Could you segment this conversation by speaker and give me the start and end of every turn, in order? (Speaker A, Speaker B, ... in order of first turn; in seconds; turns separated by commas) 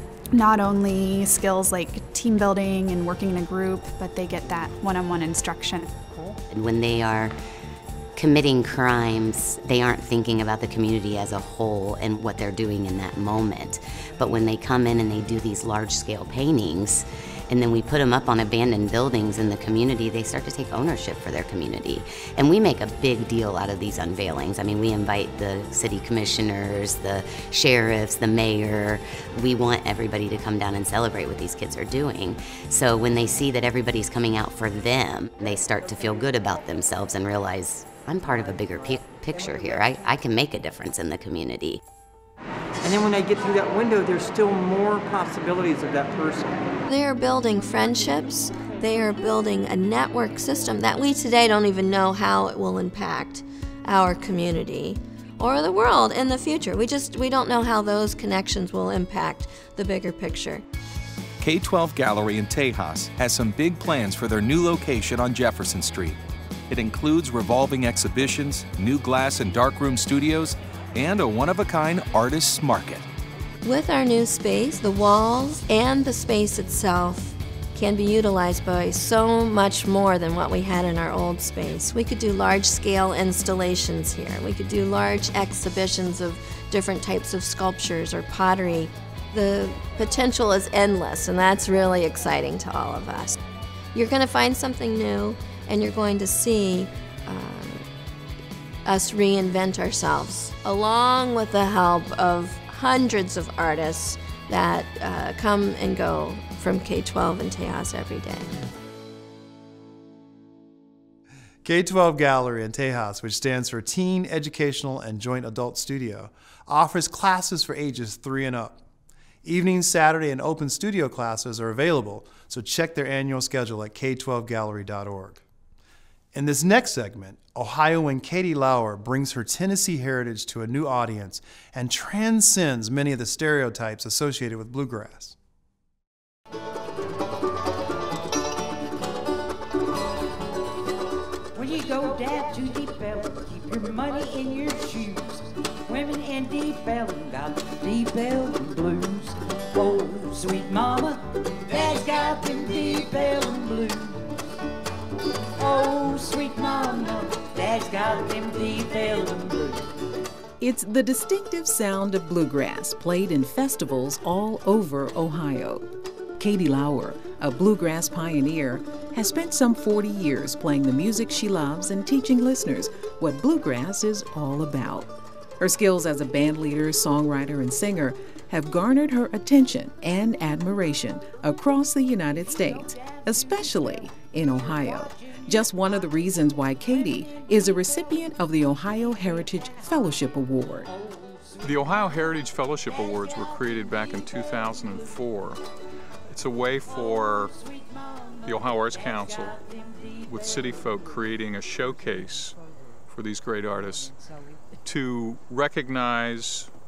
Speaker A: 0.3-6.3, Speaker B: 6.5-7.3, Speaker B: 8.2-41.8, Speaker C: 42.8-46.5, Speaker D: 46.9-60.6, Speaker E: 61.4-73.1, Speaker D: 73.6-93.4, Speaker D: 93.9-97.8, Speaker D: 98.8-108.5, Speaker F: 111.6-118.8, Speaker F: 119.4-125.4, Speaker F: 126.3-135.3, Speaker G: 141.5-154.4, Speaker G: 155.6-159.9, Speaker H: 160.6-165.9, Speaker H: 166.4-190.9, Speaker I: 191.6-195.6, Speaker I: 196.3-197.6, Speaker I: 198.4-199.6, Speaker I: 200.2-202.6, Speaker I: 203.1-204.2, Speaker I: 204.8-206.7